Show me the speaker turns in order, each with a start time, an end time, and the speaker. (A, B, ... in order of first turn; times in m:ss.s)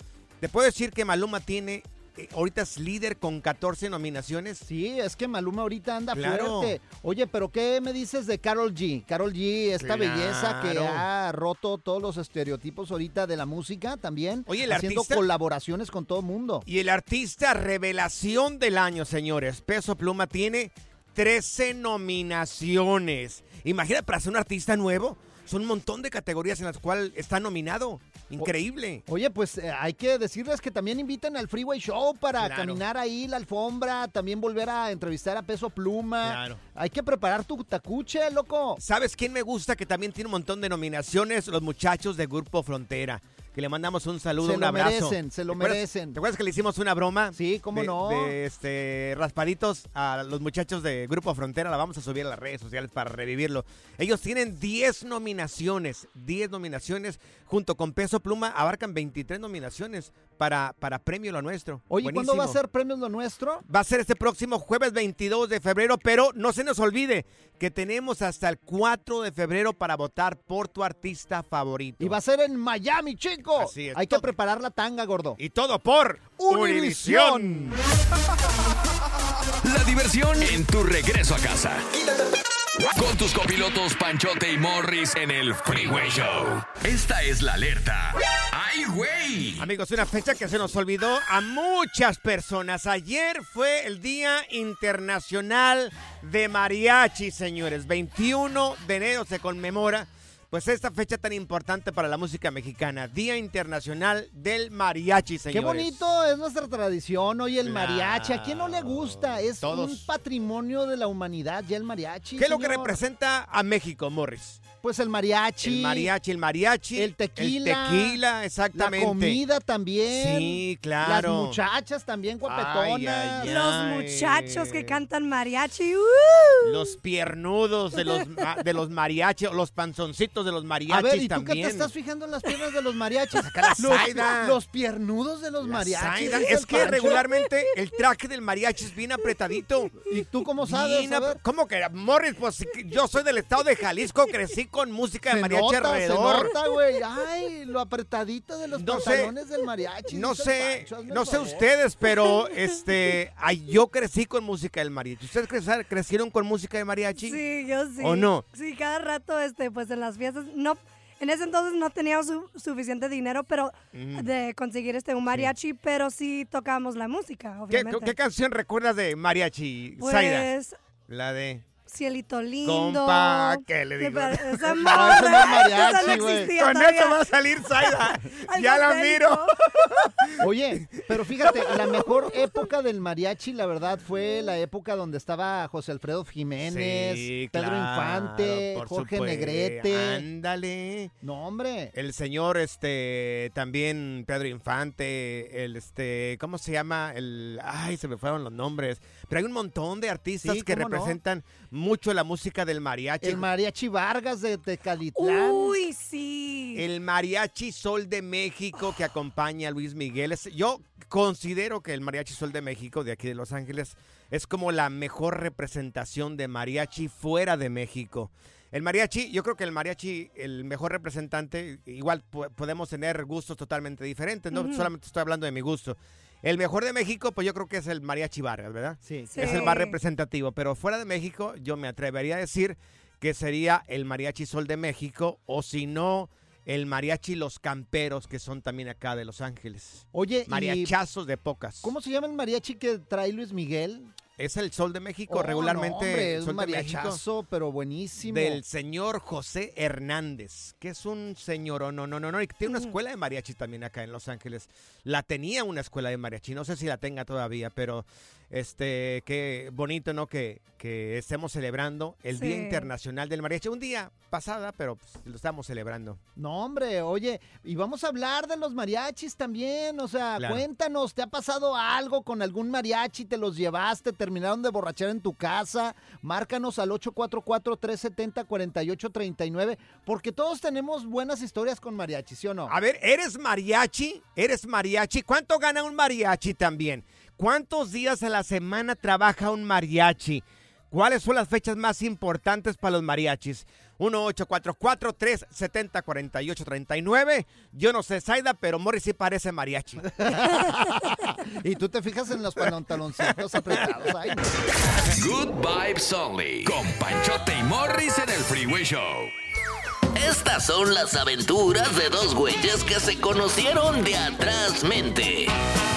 0:00.4-0:04.6 A
0:04.6-0:16.6 B
0:06.1-0:06.7 A
0:09.8-0:11.0 A
0:14.5-0:15.2 A
0:16.6-0:29.0 A
0:29.0-0:38.8 B
0:32.4-0:32.8 A
0:36.2-0:36.6 A
0:38.8-1:02.6 A
0:44.4-0:46.2 B
0:47.3-0:48.3 B
1:01.9-1:03.6 B
1:03.7-1:12.2 A
1:12.0-1:15.4 B
1:13.6-1:14.3 A
1:15.4-1:17.8 A
1:16.4-1:17.8 B
1:19.6-1:21.8 C
1:22.9-1:29.6 C
1:29.6-1:46.0 A
1:45.5-1:53.0 B
1:47.6-1:50.1 A
1:52.4-1:54.6 A
1:54.8-1:56.1 B
1:55.6-1:59.4 A
1:56.9-1:58.2 B
1:58.7-2:03.6 B
2:00.1-2:01.6 A
2:02.4-2:05.0 A
2:03.4-2:06.9 D
2:06.6-2:11.9 A
2:10.9-2:17.2 B
2:13.4-2:14.6 A
2:15.6-2:20.0 A
2:16.8-2:17.4 D
2:20.0-2:21.4 B
2:20.6-2:26.5 A
2:25.3-2:31.6 B
2:28.8-2:29.3 A
2:30.1-2:37.4 A
2:37.2-2:48.1 D
2:38.0-2:38.4 A
2:43.9-2:44.3 A
2:47.7-2:50.5 A
2:50.0-2:50.8 D
2:51.1-2:51.8 A
2:51.8-2:57.2 D
2:52.6-2:55.8 A
2:54.8-2:56.6 B
2:56.6-3:00.3 A
2:58.5-2:59.5 D
3:00.4-3:10.2 B
3:01.7-3:02.0 A
3:06.7-3:11.1 A
3:11.2-3:11.9 B
3:11.9-3:23.4 A
3:20.4-3:21.2 B
3:23.2-3:25.8 B
3:25.2-3:26.8 D
3:26.7-4:01.9 A
3:44.5-3:44.9 D
3:49.0-3:49.7 B
3:49.3-3:50.0 D
4:00.1-4:00.9 B
4:01.8-4:04.1 B
4:04.4-4:07.2 A
4:05.3-4:08.6 B
4:08.3-4:26.2 A
4:12.7-4:12.9 D
4:22.4-4:22.9 D
4:26.4-4:42.7 B
4:30.4-4:30.6 A
4:42.7-5:00.0 A
5:00.0-5:04.4 B
5:05.1-5:09.3 C
5:10.1-5:15.5 E